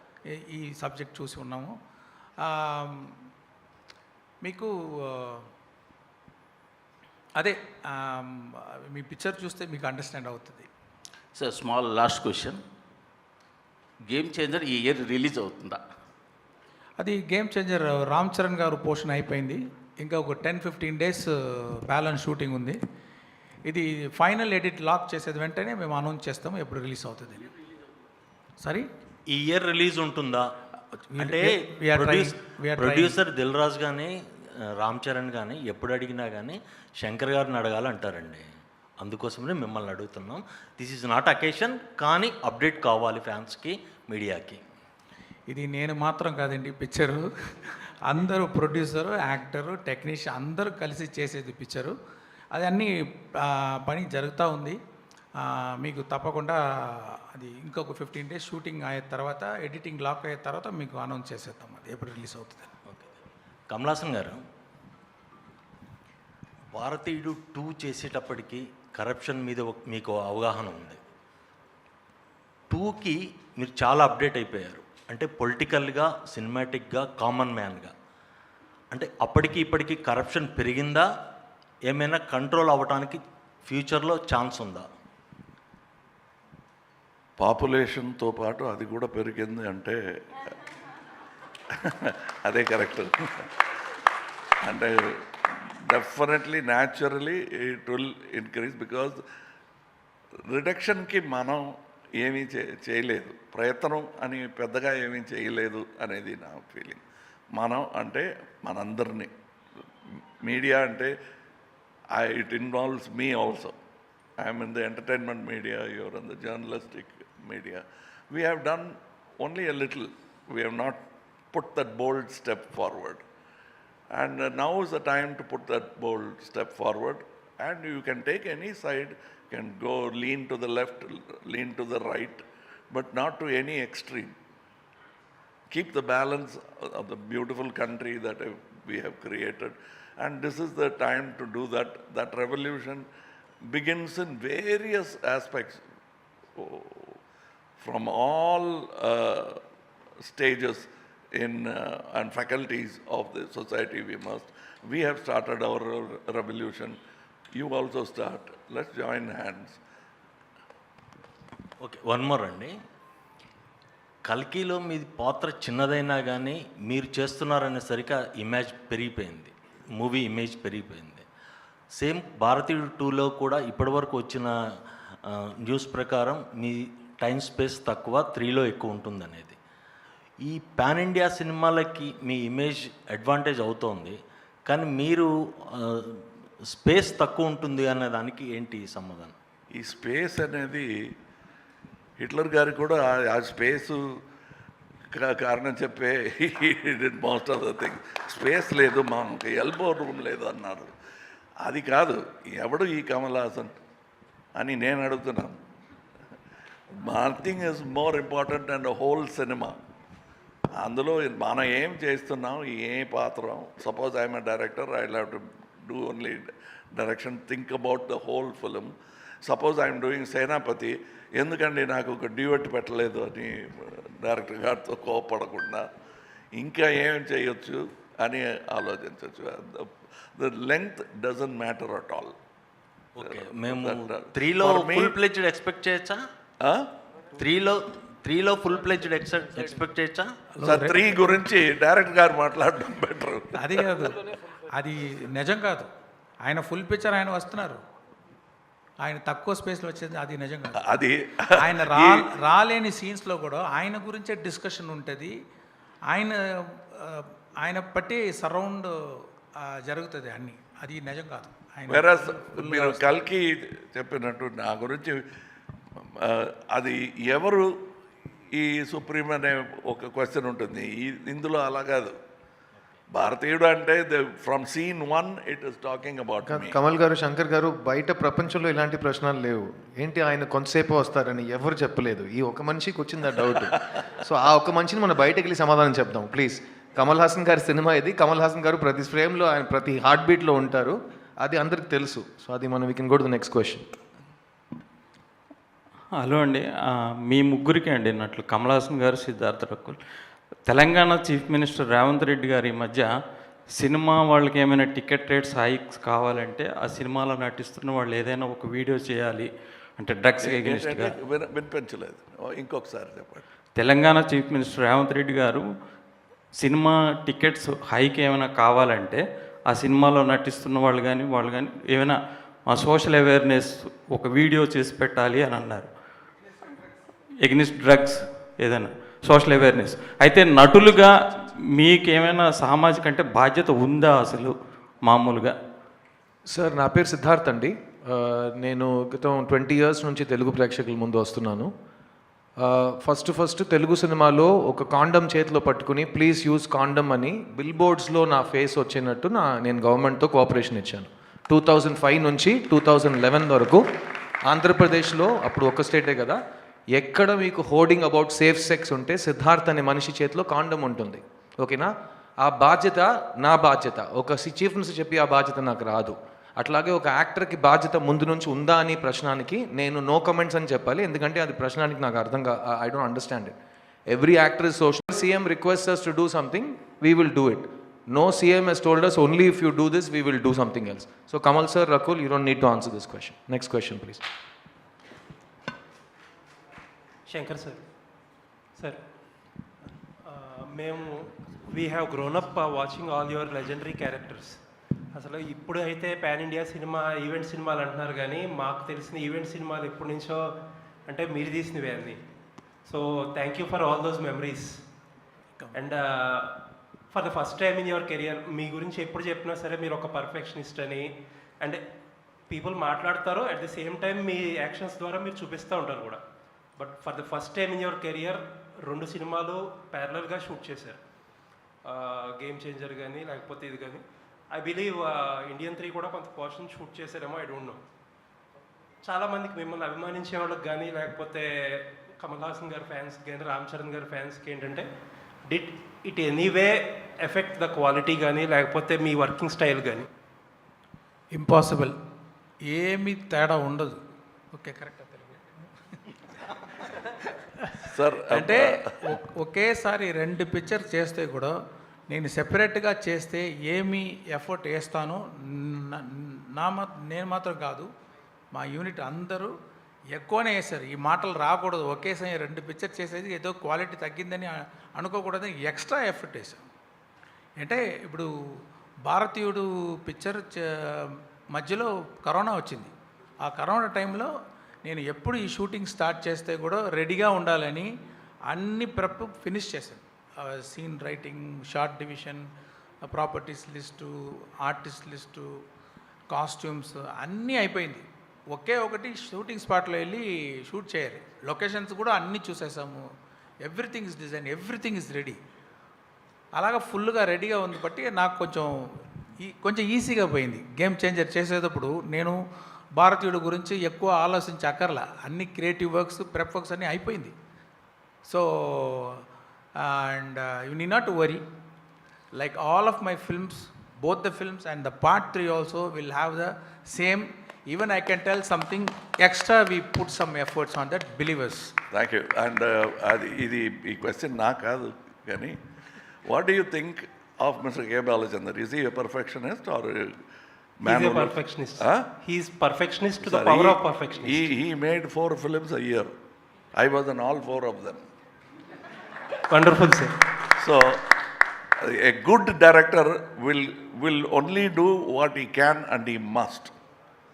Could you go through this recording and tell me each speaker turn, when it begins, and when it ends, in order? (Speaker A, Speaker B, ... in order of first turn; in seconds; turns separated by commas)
Speaker A: 0.4-1.7, Speaker A: 2.5-3.1, Speaker A: 4.4-5.5, Speaker A: 7.4-10.7, Speaker B: 11.3-12.6, Speaker B: 14.1-15.8, Speaker A: 17.0-22.8, Speaker A: 23.7-27.5, Speaker A: 28.6-28.9, Speaker C: 29.3-30.5, Speaker A: 31.0-33.2, Speaker C: 31.2-34.2, Speaker C: 34.8-38.5, Speaker C: 39.0-44.6, Speaker A: 45.5-52.0, Speaker A: 52.5-54.8, Speaker A: 55.4-62.7, Speaker C: 62.9-64.4, Speaker C: 66.7-71.0, Speaker C: 72.7-77.9, Speaker C: 78.9-81.1, Speaker C: 81.9-84.9, Speaker D: 87.4-90.5, Speaker D: 91.8-93.5, Speaker D: 94.6-99.2, Speaker D: 100.5-101.7, Speaker D: 102.2-107.0, Speaker D: 107.5-109.3, Speaker D: 110.4-111.1, Speaker D: 112.2-113.8, Speaker D: 114.4-121.0, Speaker D: 121.5-123.2, Speaker D: 124.1-134.3, Speaker D: 135.7-143.1, Speaker D: 143.7-145.8, Speaker D: 146.6-147.2, Speaker D: 147.8-149.6, Speaker D: 150.2-157.0, Speaker D: 157.5-159.8, Speaker C: 161.8-162.7, Speaker C: 164.3-171.2, Speaker C: 172.0-174.5, Speaker C: 175.7-179.6, Speaker C: 180.5-184.2, Speaker C: 184.7-189.3, Speaker D: 189.8-190.9, Speaker D: 192.2-194.0, Speaker D: 195.1-200.9, Speaker D: 201.6-203.8, Speaker D: 204.6-205.6, Speaker D: 207.0-209.8, Speaker D: 210.8-218.9, Speaker D: 219.4-225.9, Speaker D: 226.6-232.4, Speaker C: 233.2-236.2, Speaker D: 233.2-235.2, Speaker C: 237.4-240.3, Speaker A: 240.6-241.1, Speaker D: 240.6-243.9, Speaker A: 243.6-244.2, Speaker A: 244.8-245.9, Speaker A: 246.4-247.8, Speaker A: 249.0-251.0, Speaker D: 250.8-252.2, Speaker A: 251.6-255.3, Speaker A: 256.1-263.1, Speaker D: 261.9-265.3, Speaker D: 266.2-267.7, Speaker D: 268.5-272.1, Speaker D: 273.1-276.8, Speaker E: 276.5-293.9, Speaker F: 296.2-296.7, Speaker F: 297.3-300.0, Speaker F: 300.7-303.1, Speaker F: 303.8-311.1, Speaker D: 310.4-313.4, Speaker F: 313.8-315.6, Speaker F: 316.6-325.9, Speaker F: 327.4-331.1, Speaker F: 331.8-335.5, Speaker E: 336.5-341.7, Speaker E: 342.6-353.8, Speaker E: 354.5-356.4, Speaker E: 357.0-361.9, Speaker E: 362.4-373.5, Speaker E: 374.1-384.2, Speaker G: 387.3-387.8, Speaker G: 390.3-394.6, Speaker G: 395.1-400.5, Speaker G: 401.1-402.2, Speaker G: 402.9-404.8, Speaker G: 405.7-406.6, Speaker G: 407.1-411.1, Speaker G: 412.5-416.2, Speaker G: 416.8-421.0, Speaker G: 421.9-424.0, Speaker G: 424.5-427.8, Speaker G: 429.0-434.9, Speaker G: 435.5-440.1, Speaker A: 441.3-441.9, Speaker A: 442.7-444.0, Speaker A: 444.5-445.4, Speaker A: 446.7-447.0, Speaker A: 447.6-451.6, Speaker D: 447.9-448.9, Speaker A: 452.1-457.9, Speaker A: 458.6-459.5, Speaker A: 460.1-466.7, Speaker A: 467.6-468.3, Speaker A: 469.1-474.3, Speaker A: 474.9-477.9, Speaker A: 478.5-482.5, Speaker A: 483.1-485.6, Speaker A: 486.3-493.1, Speaker A: 493.6-495.4, Speaker A: 496.6-498.7, Speaker A: 499.4-502.4, Speaker A: 503.0-507.3, Speaker A: 508.3-509.2, Speaker A: 509.8-511.4, Speaker A: 512.4-521.7, Speaker D: 521.9-525.6, Speaker D: 526.3-530.2, Speaker D: 530.8-532.1, Speaker G: 530.9-534.4, Speaker D: 533.2-536.1, Speaker D: 536.8-538.0, Speaker G: 539.5-540.2, Speaker D: 540.6-541.1, Speaker D: 541.8-546.7